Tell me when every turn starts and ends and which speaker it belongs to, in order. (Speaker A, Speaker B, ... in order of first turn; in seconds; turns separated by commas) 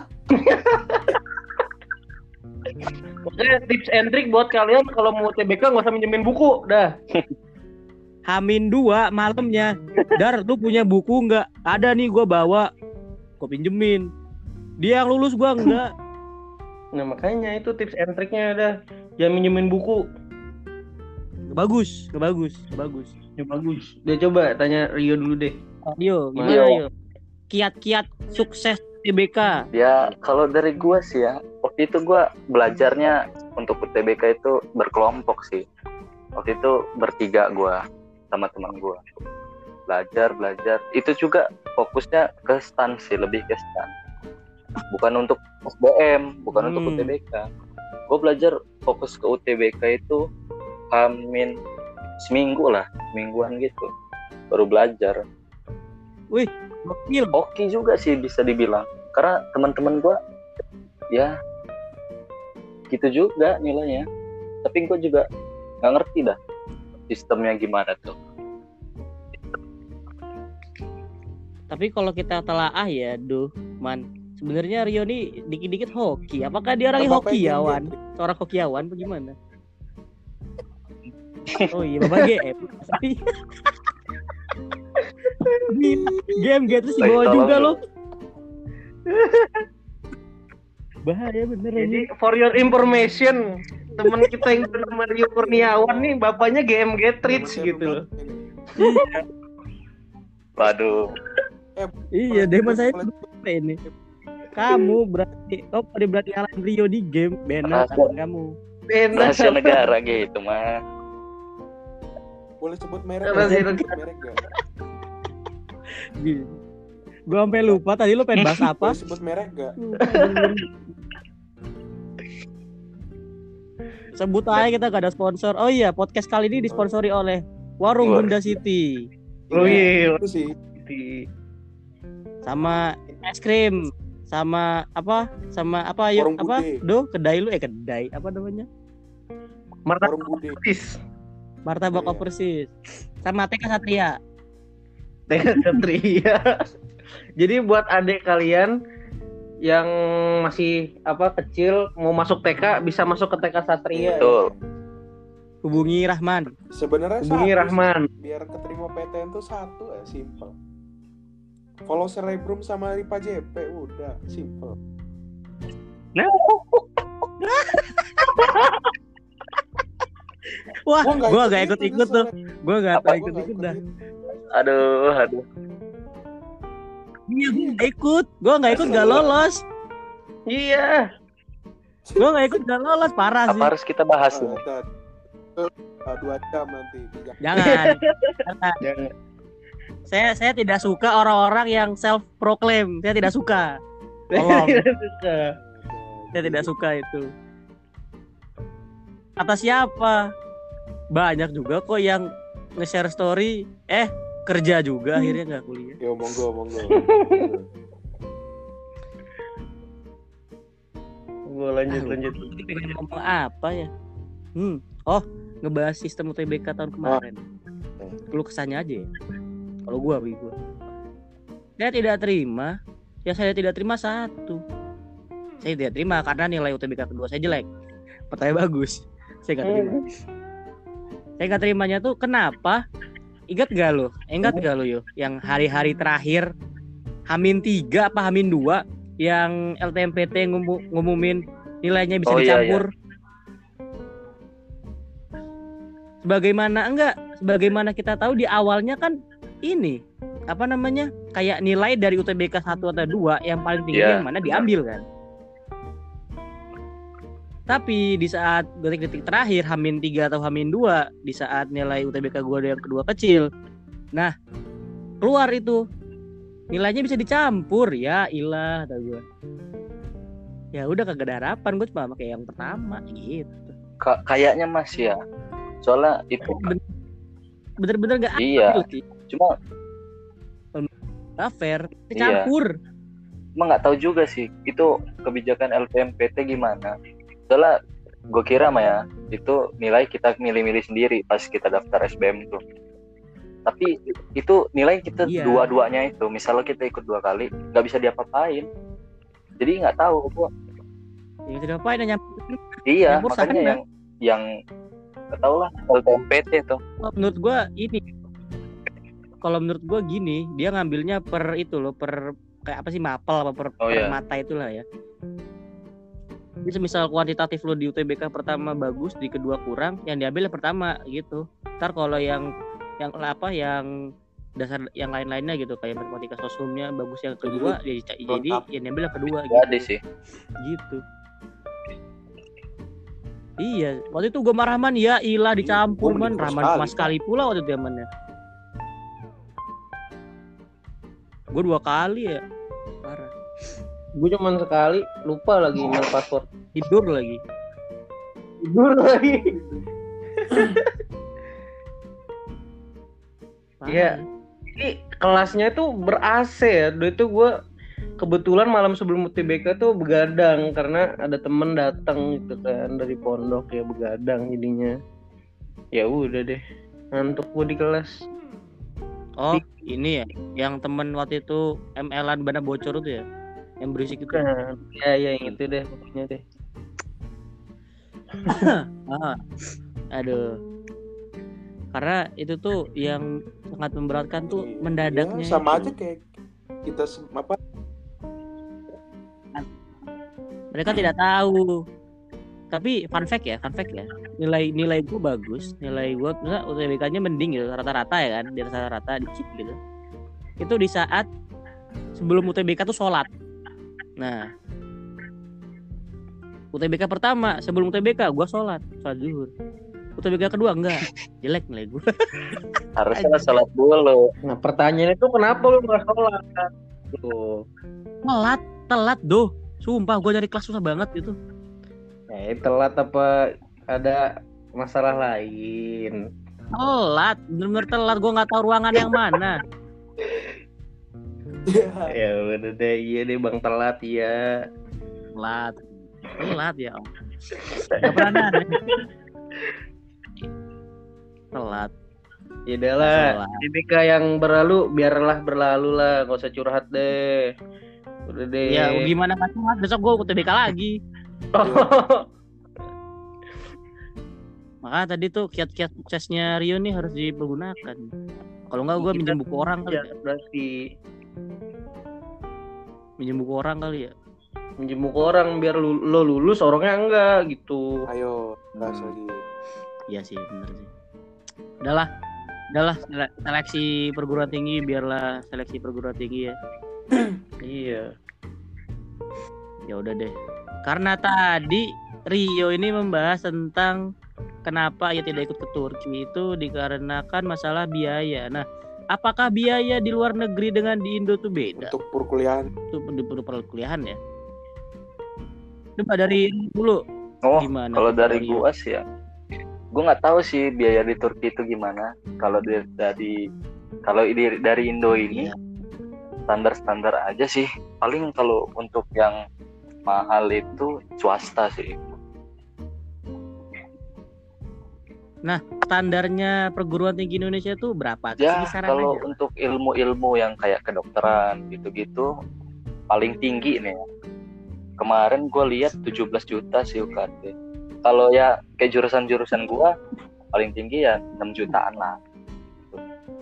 Speaker A: 0.3-1.2, Speaker A: 3.3-6.9, Speaker B: 8.3-12.7, Speaker B: 13.4-14.1, Speaker B: 14.8-15.9, Speaker A: 17.0-20.0, Speaker B: 21.5-23.1, Speaker A: 23.4-25.5, Speaker B: 25.9-26.9, Speaker C: 26.4-26.8, Speaker B: 27.5-29.6, Speaker C: 29.7-35.6, Speaker C: 36.4-37.8, Speaker C: 38.3-39.1, Speaker C: 39.9-43.9, Speaker C: 44.9-47.5, Speaker B: 46.5-47.1, Speaker C: 48.1-50.2, Speaker C: 50.9-51.5, Speaker C: 52.2-53.9, Speaker C: 54.5-55.2, Speaker B: 56.3-57.4, Speaker C: 57.4-60.2, Speaker C: 62.9-64.0, Speaker C: 64.7-65.3, Speaker C: 65.8-66.4, Speaker C: 67.1-68.2, Speaker B: 71.7-79.3, Speaker D: 77.0-78.0, Speaker C: 81.5-82.3, Speaker B: 81.7-83.2, Speaker B: 85.7-87.8, Speaker C: 87.0-87.8, Speaker A: 89.1-89.6, Speaker B: 91.0-92.0, Speaker A: 91.8-93.4, Speaker A: 93.9-98.0, Speaker D: 95.4-96.2, Speaker D: 97.3-98.5, Speaker B: 98.8-99.2, Speaker C: 100.6-101.0, Speaker D: 101.8-103.3, Speaker B: 102.2-103.8, Speaker B: 104.6-108.5, Speaker C: 107.7-108.1, Speaker A: 108.9-109.9, Speaker C: 109.1-110.7, Speaker D: 112.6-114.4, Speaker A: 113.2-113.9, Speaker B: 113.3-113.8, Speaker B: 116.2-116.5, Speaker B: 117.3-119.0, Speaker C: 118.4-118.6, Speaker D: 118.8-119.8, Speaker B: 119.8-120.7, Speaker A: 120.0-120.5, Speaker B: 124.2-129.0, Speaker C: 128.0-128.4, Speaker D: 129.5-130.6, Speaker A: 129.5-130.2, Speaker B: 129.6-129.9, Speaker A: 130.8-131.2, Speaker B: 132.5-138.7, Speaker D: 136.2-136.8, Speaker A: 139.9-140.9, Speaker D: 140.0-140.6, Speaker B: 141.7-142.7, Speaker D: 141.9-142.3, Speaker B: 143.2-144.2, Speaker A: 145.3-146.4, Speaker A: 147.4-148.7, Speaker A: 150.4-154.3, Speaker D: 153.9-154.7, Speaker C: 154.1-154.5, Speaker B: 155.7-156.5, Speaker D: 156.8-160.6, Speaker A: 157.2-158.1, Speaker D: 161.9-164.8, Speaker C: 166.2-166.8, Speaker B: 167.6-168.6, Speaker B: 170.9-173.8, Speaker D: 171.0-172.3, Speaker D: 173.0-173.9, Speaker C: 174.5-175.4, Speaker B: 177.3-179.6, Speaker D: 177.5-177.8, Speaker D: 178.7-179.3, Speaker A: 178.8-179.3, Speaker A: 180.5-181.1, Speaker B: 182.2-183.7, Speaker C: 183.5-184.6, Speaker D: 184.3-184.9, Speaker D: 185.6-187.4, Speaker B: 187.4-188.8, Speaker A: 187.6-189.1, Speaker B: 190.1-193.7, Speaker A: 194.3-195.5, Speaker B: 194.4-194.8, Speaker D: 195.5-196.7, Speaker B: 196.3-197.2, Speaker B: 199.4-200.2, Speaker B: 201.2-202.3, Speaker B: 202.8-206.0, Speaker D: 206.0-207.7, Speaker A: 206.9-207.5, Speaker A: 211.5-212.5, Speaker B: 211.9-213.9, Speaker B: 214.6-217.4, Speaker B: 218.3-219.1, Speaker B: 219.9-220.5, Speaker B: 221.8-222.7, Speaker B: 223.3-224.6, Speaker B: 225.6-227.7, Speaker B: 228.3-230.0, Speaker A: 229.6-230.0, Speaker B: 231.4-232.8, Speaker B: 233.5-236.5, Speaker B: 237.3-242.9, Speaker C: 242.3-242.8, Speaker B: 246.2-249.2, Speaker B: 249.7-255.0, Speaker C: 253.9-254.7, Speaker B: 257.7-263.5, Speaker B: 265.2-265.8, Speaker B: 266.7-269.2, Speaker B: 270.8-273.7, Speaker C: 274.0-275.2, Speaker C: 275.8-276.7, Speaker B: 276.4-276.8, Speaker B: 277.8-279.0, Speaker C: 278.4-279.5, Speaker B: 280.8-282.7, Speaker C: 282.2-282.5, Speaker C: 283.6-286.9, Speaker C: 287.5-287.8, Speaker C: 288.3-292.6, Speaker C: 293.7-298.7, Speaker B: 295.3-295.6, Speaker C: 299.6-300.5, Speaker B: 301.5-303.8, Speaker C: 302.9-304.4, Speaker C: 305.4-306.8, Speaker B: 307.0-308.1, Speaker B: 309.4-314.8, Speaker C: 313.8-314.2, Speaker B: 316.6-322.5, Speaker B: 323.0-323.9, Speaker B: 324.6-329.9, Speaker D: 327.4-328.7, Speaker C: 329.5-330.0, Speaker B: 330.6-331.0, Speaker B: 333.6-338.1, Speaker D: 335.6-337.1, Speaker B: 341.5-342.4, Speaker B: 343.1-343.3, Speaker A: 344.2-346.5, Speaker B: 346.7-347.4, Speaker A: 348.6-349.5, Speaker D: 349.2-349.9, Speaker A: 350.4-350.9, Speaker B: 353.8-354.2, Speaker A: 353.9-354.2, Speaker A: 354.8-357.5, Speaker A: 358.2-364.9, Speaker A: 365.9-366.6, Speaker A: 367.1-368.1, Speaker B: 369.4-373.2, Speaker B: 373.8-374.4, Speaker A: 374.3-376.4, Speaker B: 378.5-379.4, Speaker B: 380.1-380.5, Speaker B: 381.9-383.2, Speaker B: 383.8-385.9, Speaker D: 384.5-386.2, Speaker D: 386.9-387.6, Speaker B: 390.7-391.7, Speaker B: 392.7-399.8, Speaker B: 400.6-401.3, Speaker B: 402.2-403.3, Speaker B: 404.2-404.5, Speaker B: 406.7-409.5, Speaker B: 410.2-413.6, Speaker C: 413.0-414.2, Speaker A: 414.5-417.6, Speaker B: 418.3-421.4, Speaker A: 422.3-423.3, Speaker A: 423.9-424.2, Speaker A: 424.8-426.2, Speaker B: 426.8-429.6, Speaker D: 431.7-432.1, Speaker A: 432.1-434.4, Speaker B: 435.4-437.1, Speaker A: 437.8-439.0, Speaker B: 438.0-438.9, Speaker B: 441.5-441.9, Speaker A: 442.7-447.5, Speaker B: 443.0-443.6, Speaker A: 448.3-448.9, Speaker B: 448.7-451.0, Speaker A: 451.6-452.2, Speaker D: 451.6-451.9, Speaker B: 454.9-458.0, Speaker B: 458.7-460.1, Speaker A: 459.0-459.4, Speaker A: 459.9-460.7, Speaker B: 463.2-464.1, Speaker A: 464.8-467.9, Speaker D: 468.1-469.4, Speaker B: 468.8-469.1, Speaker B: 470.1-470.9, Speaker B: 472.7-476.6, Speaker A: 477.7-478.1, Speaker B: 479.9-480.3, Speaker B: 480.9-484.0, Speaker B: 484.7-491.9, Speaker D: 491.8-492.7, Speaker B: 492.9-494.2, Speaker B: 496.0-497.0, Speaker C: 497.4-499.0, Speaker B: 497.6-498.6, Speaker C: 499.9-503.4, Speaker C: 504.1-505.5, Speaker C: 506.5-509.4, Speaker C: 510.1-511.9, Speaker B: 515.5-519.4, Speaker C: 518.4-522.3, Speaker C: 523.1-524.0, Speaker C: 525.0-527.5, Speaker C: 528.0-530.0, Speaker C: 530.5-532.2